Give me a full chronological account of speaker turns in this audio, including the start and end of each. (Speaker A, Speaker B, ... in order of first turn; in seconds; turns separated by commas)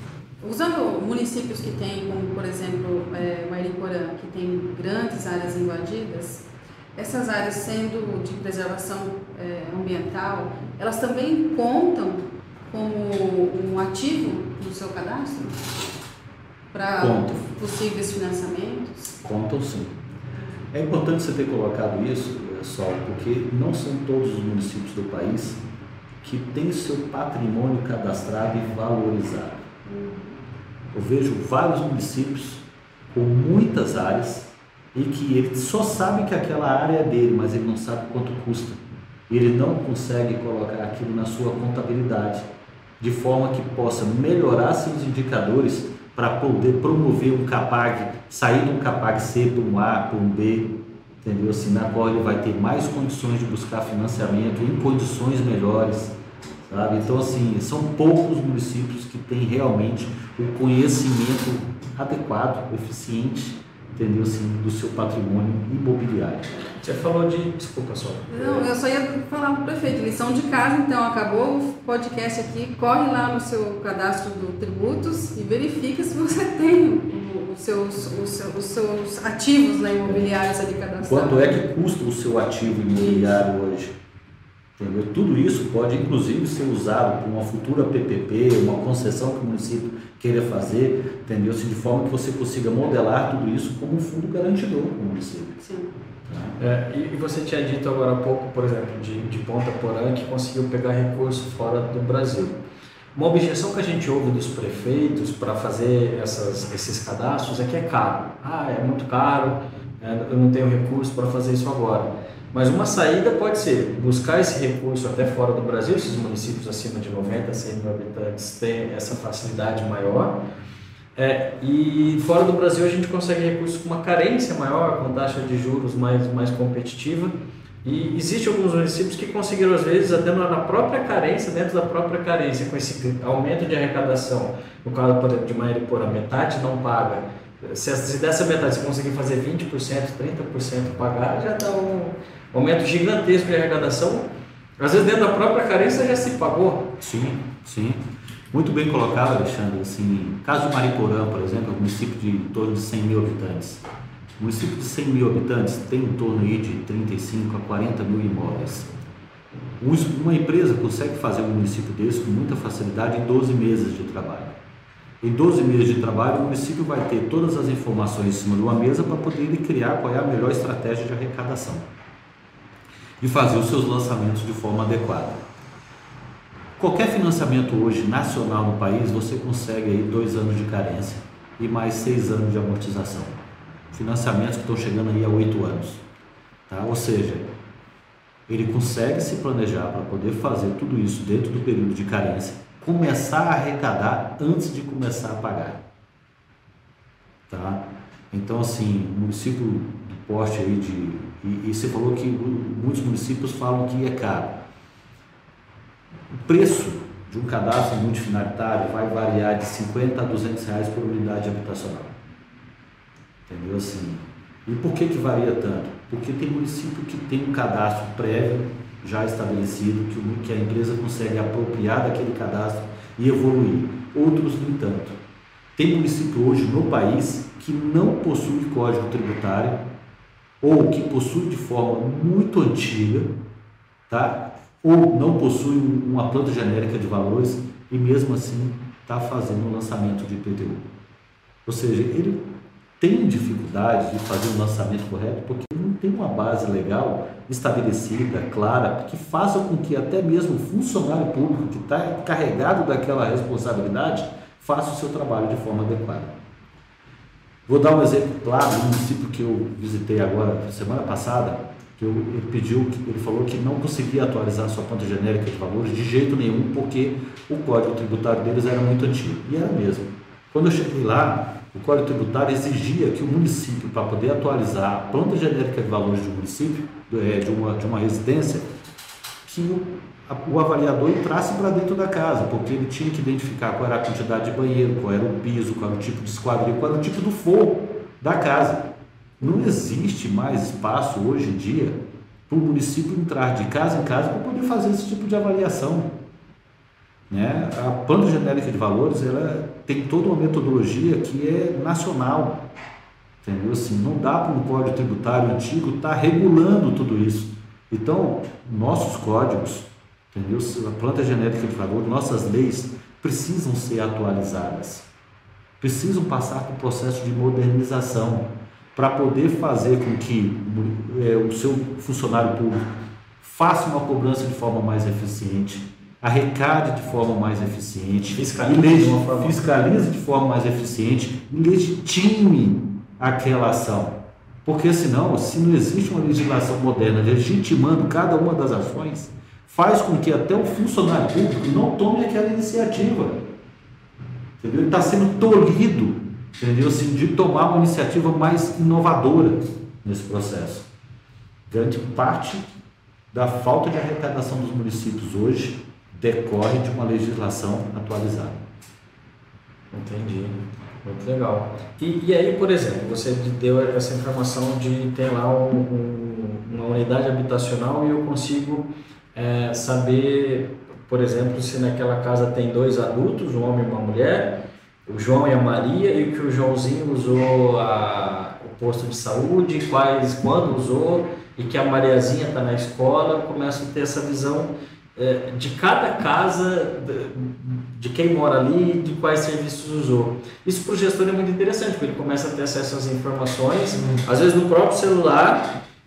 Speaker A: 0.4-15.7, Speaker A: 16.7-19.1, Speaker B: 17.0-17.5, Speaker B: 19.2-19.9, Speaker B: 20.7-25.6, Speaker B: 26.2-29.6, Speaker A: 29.9-30.4, Speaker B: 30.9-42.5, Speaker B: 43.0-56.2, Speaker B: 56.7-66.5, Speaker C: 66.8-68.7, Speaker A: 68.3-81.6, Speaker B: 81.0-84.0, Speaker A: 83.0-83.4, Speaker B: 84.8-95.6, Speaker A: 95.6-95.9, Speaker B: 96.3-96.6, Speaker C: 96.6-102.6, Speaker C: 103.2-120.4, Speaker C: 121.2-127.3, Speaker C: 127.8-146.9, Speaker B: 147.0-148.0, Speaker B: 148.5-153.8, Speaker B: 154.4-158.9, Speaker B: 159.8-164.6, Speaker B: 165.2-171.9, Speaker B: 173.2-175.4, Speaker B: 176.8-183.4, Speaker B: 183.9-186.0, Speaker B: 186.7-187.5, Speaker B: 188.5-195.8, Speaker B: 197.5-204.6, Speaker B: 206.4-212.2, Speaker B: 213.5-225.2, Speaker B: 225.8-229.8, Speaker B: 230.6-233.3, Speaker B: 234.1-240.9, Speaker B: 241.7-242.5, Speaker B: 243.0-256.3, Speaker B: 257.7-278.7, Speaker B: 279.5-288.9, Speaker B: 289.4-296.1, Speaker B: 297.3-302.6, Speaker B: 303.4-315.1, Speaker B: 315.8-322.9, Speaker B: 323.4-343.4, Speaker C: 328.4-329.6, Speaker B: 344.6-350.9, Speaker B: 351.7-352.7, Speaker B: 353.3-358.6, Speaker C: 359.9-395.7